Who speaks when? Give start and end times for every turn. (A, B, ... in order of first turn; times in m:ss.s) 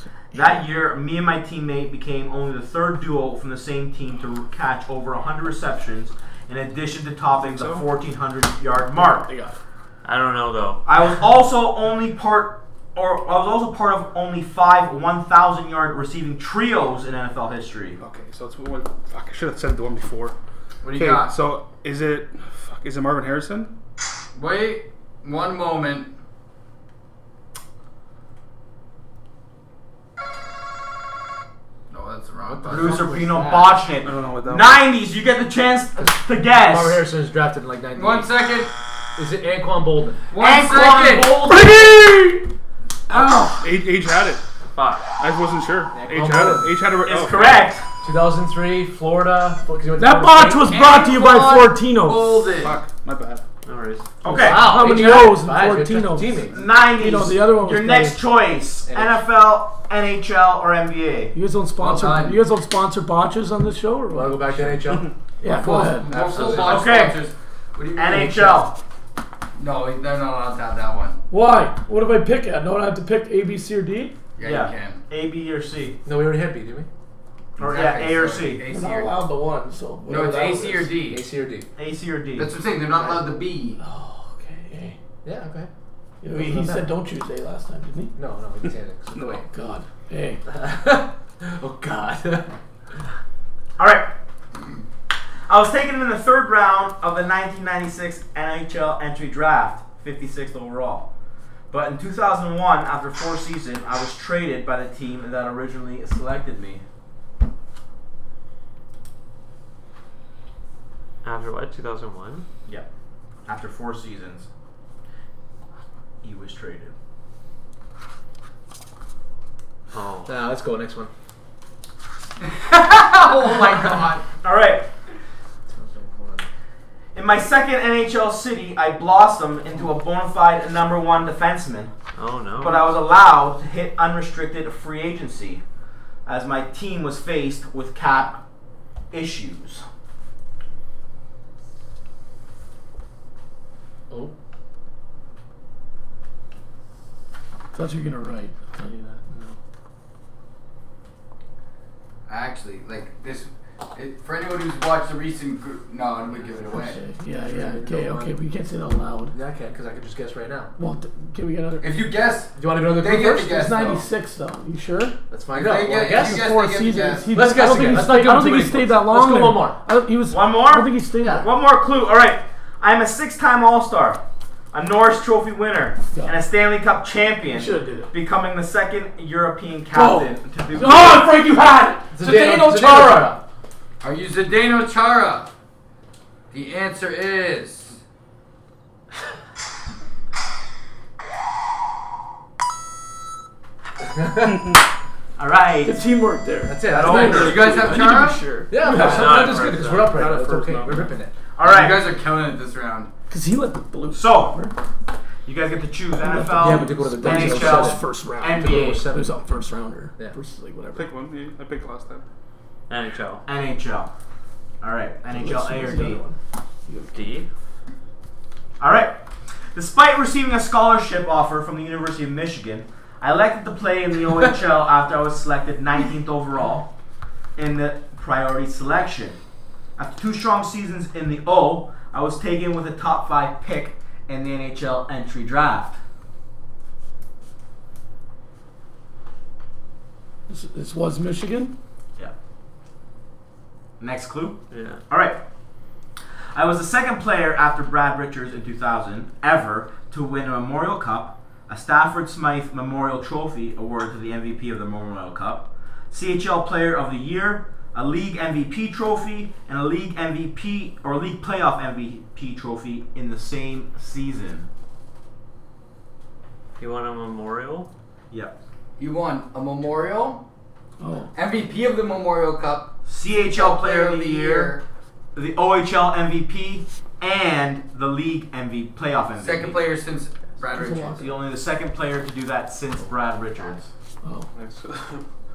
0:00.3-0:00.6 A
0:00.3-0:09.3 B
0:07.4-0:07.9 C
0:08.9-0:09.6 A
0:10.0-0:10.8 D
0:10.8-0:18.0 B
0:18.0-0:20.3 C
0:20.8-0:21.3 E
0:20.9-0:23.7 C
0:24.3-0:26.1 E
0:31.9-0:33.2 E
0:32.4-0:33.8 F
0:32.7-0:37.0 B
0:34.0-0:34.8 C
0:36.0-0:38.4 F
0:37.9-0:38.7 E
0:39.2-0:40.2 F
0:40.3-0:41.4 E
0:40.4-0:41.9 B
0:41.4-0:42.5 A
0:43.1-0:43.7 A
0:43.3-0:44.4 C
0:44.7-0:45.1 D
0:45.2-0:47.7 C
0:45.9-0:46.7 F
0:47.0-0:47.9 B
0:48.0-0:50.7 F
0:50.0-0:52.6 A
0:50.7-0:52.8 E
0:52.6-0:53.4 C
0:53.6-0:54.1 D
0:54.2-0:54.8 B
0:54.3-0:58.2 A
0:54.3-0:56.6 F
0:56.5-1:01.3 B
0:58.9-0:59.2 F
1:01.3-1:04.5 A
1:01.8-1:02.4 E
1:04.1-1:06.8 F
1:05.4-1:06.3 A
1:05.5-1:08.5 E
1:06.6-1:07.2 B
1:08.0-1:08.7 B
1:09.6-1:11.2 E
1:11.3-1:14.2 A
1:14.4-1:15.0 E
1:14.4-1:16.0 B
1:16.0-1:16.9 F
1:17.6-1:18.6 B
1:17.6-1:19.2 E
1:18.6-1:20.8 A
1:20.1-1:21.2 E
1:20.1-1:21.7 F
1:21.8-1:22.6 B
1:22.4-1:23.8 E
1:22.9-1:23.4 F
1:23.8-1:25.0 A
1:25.2-1:25.7 F
1:26.2-1:28.1 A
1:26.3-1:26.9 F
1:28.1-1:29.4 F
1:29.3-1:30.4 A
1:30.4-1:32.5 F
1:33.8-1:34.1 B
1:35.5-1:41.1 B
1:41.7-1:46.8 B
1:51.2-1:52.4 D
1:53.4-1:54.5 B
1:56.2-1:56.9 B
1:59.9-2:00.3 D
2:00.3-2:01.1 F
2:02.4-2:04.3 E
2:04.4-2:04.9 B
2:05.7-2:06.5 F
2:07.1-2:11.9 B
2:12.1-2:12.9 D
2:12.6-2:15.6 B
2:16.3-2:18.4 B
2:19.1-2:19.8 B
2:27.7-2:29.2 A
2:29.3-2:29.6 F
2:32.3-2:37.0 E
2:36.4-2:38.4 F
2:36.7-2:39.3 A
2:39.3-2:40.7 F
2:40.8-2:41.9 A
2:41.8-2:44.0 E
2:42.6-2:43.5 F
2:43.2-2:45.2 A
2:45.3-2:46.5 F
2:45.5-2:47.3 E
2:46.0-2:51.5 A
2:47.3-2:49.8 F
2:50.3-2:54.2 B
2:54.7-3:01.4 B
2:56.1-2:56.4 A
2:57.4-2:58.1 A
2:59.9-3:03.4 A
3:02.1-3:03.4 F
3:04.0-3:05.5 E
3:06.5-3:08.0 E
3:14.0-3:14.7 F
3:15.4-3:16.2 B
3:15.8-3:19.6 A
3:16.6-3:17.9 F
3:16.9-3:17.8 B
3:17.2-3:18.4 E
3:18.7-3:21.3 F
3:18.9-3:20.2 D
3:19.4-3:21.1 C
3:21.6-3:22.1 B
3:21.6-3:23.1 E
3:23.3-3:24.7 A
3:24.1-3:24.6 B
3:25.4-3:29.1 B
3:26.1-3:31.1 A
3:26.6-3:29.4 F
3:30.9-3:32.2 C
3:32.9-3:33.4 D
3:33.4-3:34.1 B
3:34.8-3:36.2 B
3:35.3-3:37.3 A
3:37.1-3:37.5 D
3:38.8-3:39.2 B
3:39.7-3:46.9 B
3:47.6-3:49.4 B
3:50.0-3:56.0 B
4:00.5-4:01.8 A
4:04.0-4:05.4 B
4:04.7-4:05.0 D
4:06.5-4:24.7 B
4:26.8-4:27.9 D
4:29.0-4:30.4 E
4:31.0-4:31.3 A
4:31.3-4:34.8 E
4:33.0-4:34.8 B
4:35.3-4:39.8 B
4:39.4-4:41.2 E
4:40.7-4:41.4 A
4:41.1-4:43.9 B
4:44.2-4:44.5 A
4:44.5-4:45.2 D